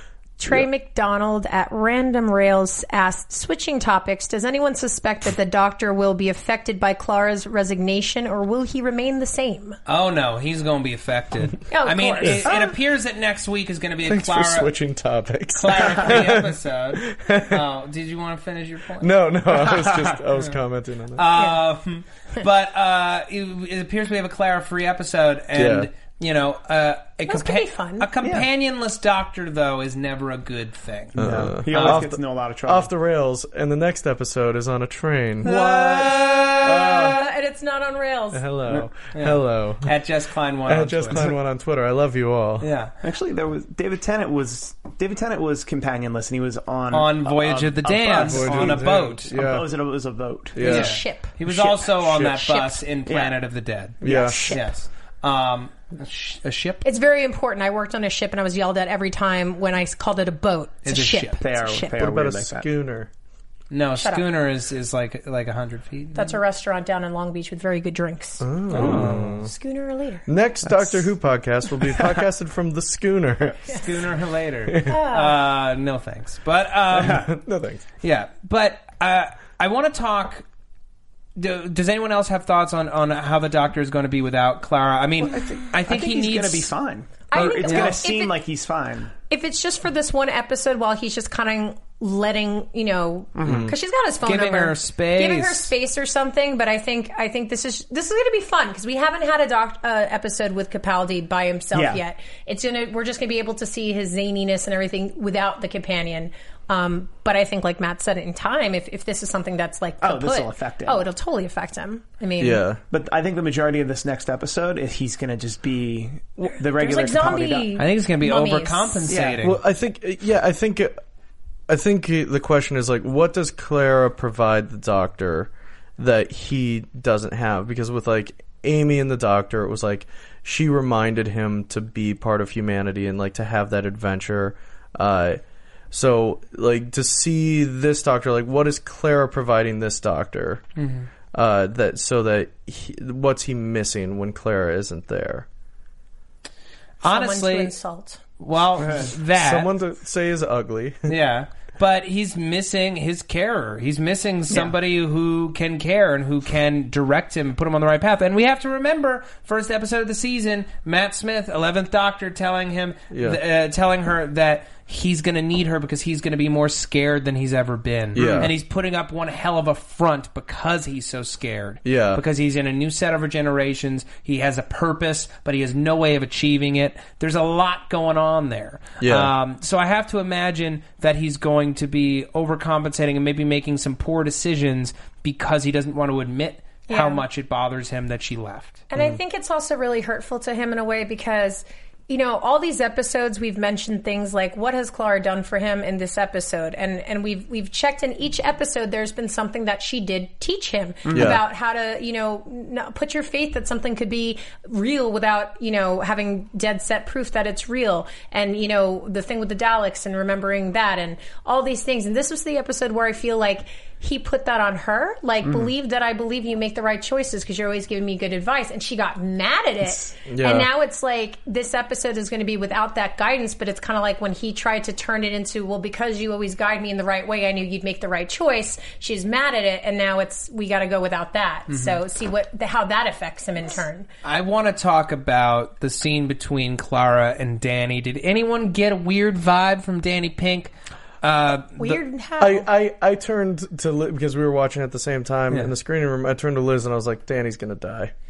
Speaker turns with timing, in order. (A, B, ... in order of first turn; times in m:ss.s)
0:00.4-0:09.8 A
0:09.9-0:14.7 B
0:11.7-0:12.6 A
0:14.0-0:17.6 C
0:15.6-0:19.2 B
0:19.0-0:21.3 C
0:19.7-0:20.1 D
0:21.2-0:32.0 B
0:21.3-0:21.6 A
0:25.5-0:25.9 C
0:27.3-0:28.1 A
0:28.2-0:28.5 D
0:31.2-0:35.6 C
0:31.2-0:32.9 D
0:35.4-0:37.2 B
0:35.4-0:38.4 A
0:36.6-0:37.1 C
0:38.3-0:39.9 C
0:39.1-0:41.2 B
0:40.6-0:42.7 C
0:42.6-0:42.9 B
0:43.0-0:50.6 D
0:46.9-0:49.3 B
0:48.1-0:49.7 C
0:50.5-0:52.4 C
0:50.6-0:51.3 A
0:50.6-0:56.8 B
0:52.2-0:52.8 A
0:53.0-0:53.4 D
0:54.0-0:54.4 C
0:54.0-0:54.6 A
0:54.1-0:54.4 D
0:56.8-1:02.0 A
1:00.8-1:01.4 B
1:01.4-1:02.7 D
1:01.9-1:03.1 C
1:03.7-1:06.4 B
1:04.0-1:04.2 A
1:06.1-1:10.3 A
1:08.4-1:09.5 C
1:08.8-1:09.2 B
1:08.8-1:09.1 D
1:10.3-1:13.8 C
1:13.7-1:17.4 B
1:14.7-1:15.0 C
1:14.8-1:15.4 A
1:16.9-1:17.8 C
1:18.0-1:20.4 B
1:21.4-1:26.7 B
1:25.2-1:29.1 D
1:27.3-1:28.4 A
1:27.6-1:28.0 B
1:29.3-1:52.6 A
1:33.4-1:33.7 D
1:33.4-1:33.7 C
1:34.2-1:35.7 B
1:41.7-1:42.0 D
1:50.0-1:51.0 D
1:52.4-1:52.8 C
1:52.9-1:57.7 D
1:56.4-1:59.2 A
1:57.8-1:59.6 B
1:59.1-1:59.4 D
1:59.4-2:00.9 C
2:01.7-2:20.6 C
2:20.8-2:21.1 B
2:21.3-2:25.4 C
2:27.0-2:27.7 B
2:27.0-2:28.2 A
2:28.4-2:29.7 B
2:28.8-2:29.1 D
2:29.3-2:31.1 C
2:31.1-3:08.8 B
2:43.1-2:43.4 C
2:48.2-2:48.5 C
2:48.2-2:48.4 D
2:51.8-2:52.2 C
2:59.0-2:59.3 C
3:06.9-3:07.2 A
3:08.9-3:54.1 A
3:21.0-3:21.4 D
3:21.1-3:21.4 C
3:35.4-3:35.7 D
3:40.3-3:40.7 C
3:54.2-4:00.7 B
4:01.2-4:01.8 B
4:01.8-4:02.7 A
4:01.8-4:08.1 C